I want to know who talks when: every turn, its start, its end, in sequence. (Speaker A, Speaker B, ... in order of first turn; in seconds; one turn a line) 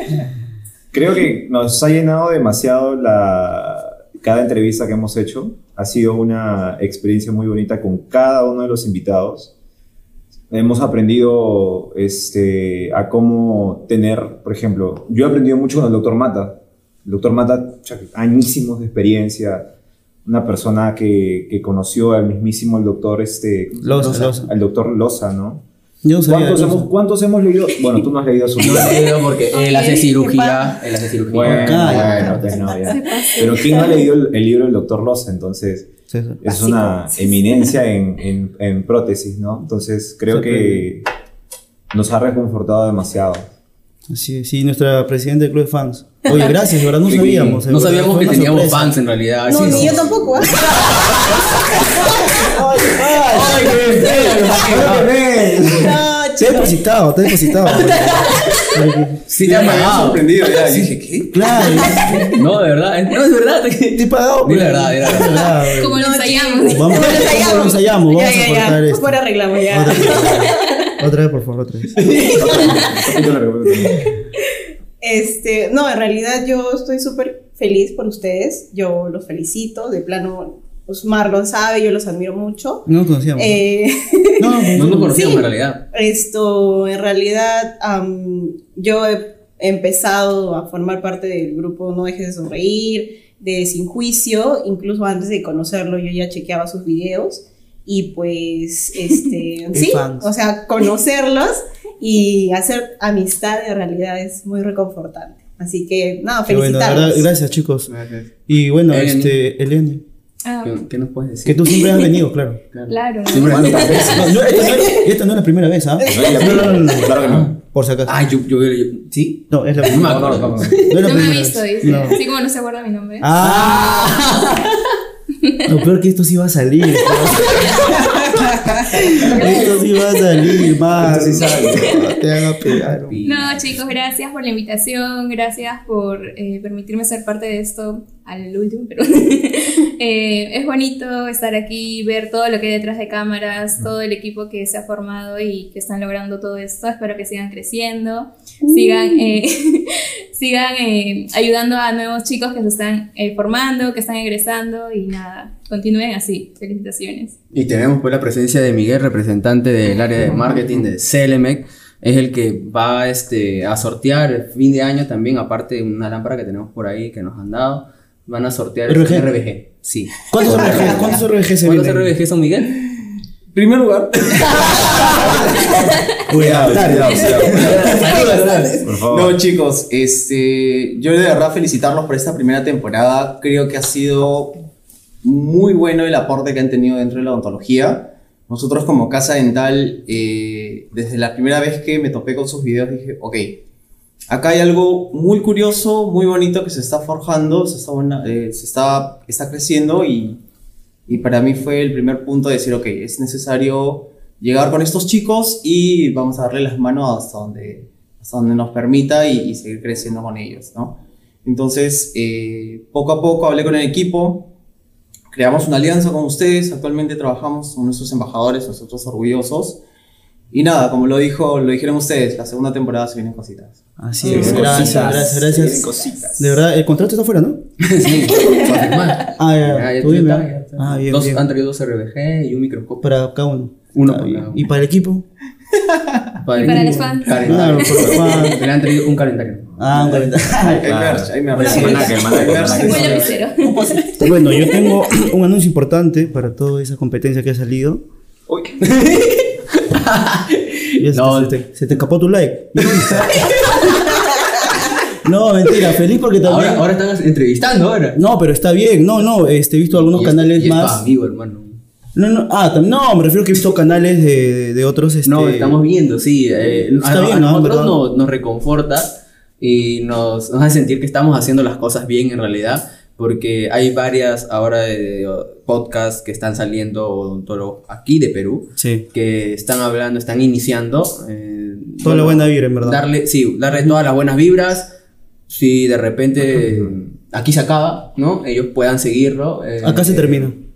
Speaker A: 0.9-9.5
Speaker A: 10.5-19.7
Speaker A: 20.2-25.6
Speaker B: 23.8-24.5
Speaker C: 24.0-24.3
Speaker B: 26.0-26.9
Speaker A: 26.2-29.1
Speaker C: 28.6-32.5
Speaker D: 29.6-30.7
Speaker A: 31.3-35.9
Speaker B: 31.4-32.7
Speaker D: 31.8-33.9
Speaker E: 32.4-34.1
Speaker B: 36.1-36.4
Speaker A: 36.4-41.1
Speaker D: 36.5-37.6
Speaker B: 40.3-40.9
Speaker A: 41.9-43.5
Speaker B: 44.1-48.9
Speaker A: 47.0-47.7
Speaker C: 47.7-51.8
Speaker D: 49.5-51.2
Speaker B: 52.4-55.1
Speaker C: 53.4-55.1
Speaker A: 53.4-56.0
Speaker D: 55.6-56.8
Speaker B: 56.4-59.2
Speaker C: 57.7-58.5
Speaker C: 59.3-60.2
Speaker F: 59.4-61.3
Speaker B: 60.8-62.3
Speaker D: 61.5-62.3
Speaker C: 62.3-65.5
Speaker B: 63.9-66.0
Speaker E: 65.8-67.2
Speaker D: 65.9-70.9
Speaker B: 66.7-72.0
Speaker D: 72.0-107.3
Speaker A: 72.4-74.1
Speaker B: 82.8-83.6
Speaker B: 84.4-85.1
Speaker C: 84.7-85.8
Speaker B: 99.7-100.3
Speaker B: 106.5-107.9
Speaker C: 107.9-108.4
Speaker B: 108.5-110.0
Speaker C: 108.9-109.4
Speaker E: 110.4-110.7
Speaker C: 110.6-111.6
Speaker B: 111.4-112.6
Speaker E: 111.7-112.1
Speaker C: 112.7-114.4
Speaker E: 112.9-115.0
Speaker B: 113.5-118.2
Speaker A: 113.7-114.1
Speaker D: 116.0-116.7
Speaker A: 116.1-117.5
Speaker C: 117.1-117.5
Speaker C: 118.0-122.0
Speaker B: 119.5-122.2
Speaker A: 119.9-120.8
Speaker E: 121.0-123.3
Speaker B: 123.2-124.2
Speaker C: 123.4-124.7
Speaker B: 125.6-127.9
Speaker B: 129.2-133.2
Speaker E: 129.4-129.7
Speaker A: 130.9-131.9
Speaker C: 133.0-133.7
Speaker E: 133.2-157.3
Speaker C: 157.5-172.8
Speaker B: 168.9-169.3
Speaker B: 170.3-172.1
Speaker F: 170.6-171.0
Speaker F: 173.5-176.0
Speaker B: 176.3-177.5
Speaker A: 176.3-178.2
Speaker F: 176.7-177.7
Speaker C: 177.4-178.8
Speaker D: 177.9-178.8
Speaker A: 178.8-179.4
Speaker F: 179.1-184.7
Speaker F: 185.2-193.6
Speaker F: 194.3-200.4
Speaker F: 201.1-214.5
Speaker F: 215.3-219.8
Speaker F: 220.5-223.8
Speaker B: 224.0-227.6
Speaker D: 224.2-226.0
Speaker A: 224.2-226.6
Speaker C: 227.8-233.0
Speaker B: 229.4-231.4
Speaker B: 233.0-235.2
Speaker C: 233.9-234.6
Speaker C: 236.4-239.9
Speaker B: 236.6-238.6
Speaker E: 236.6-238.4
Speaker B: 239.8-240.9
Speaker F: 239.9-244.1
Speaker A: 240.9-243.4
Speaker E: 241.6-244.0
Speaker D: 241.7-242.1
Speaker B: 244.2-248.0
Speaker A: 248.5-248.7
Speaker C: 248.8-251.6
Speaker B: 251.0-253.4
Speaker C: 252.8-254.2
Speaker B: 255.2-256.9
Speaker C: 256.4-258.2
Speaker B: 258.1-261.0
Speaker C: 259.9-261.8
Speaker B: 262.2-265.8
Speaker C: 265.2-284.9
Speaker B: 266.6-268.0
Speaker B: 278.8-279.1
Speaker B: 282.0-283.0
Speaker C: 285.5-290.5
Speaker A: 286.6-286.9
Speaker B: 289.8-290.6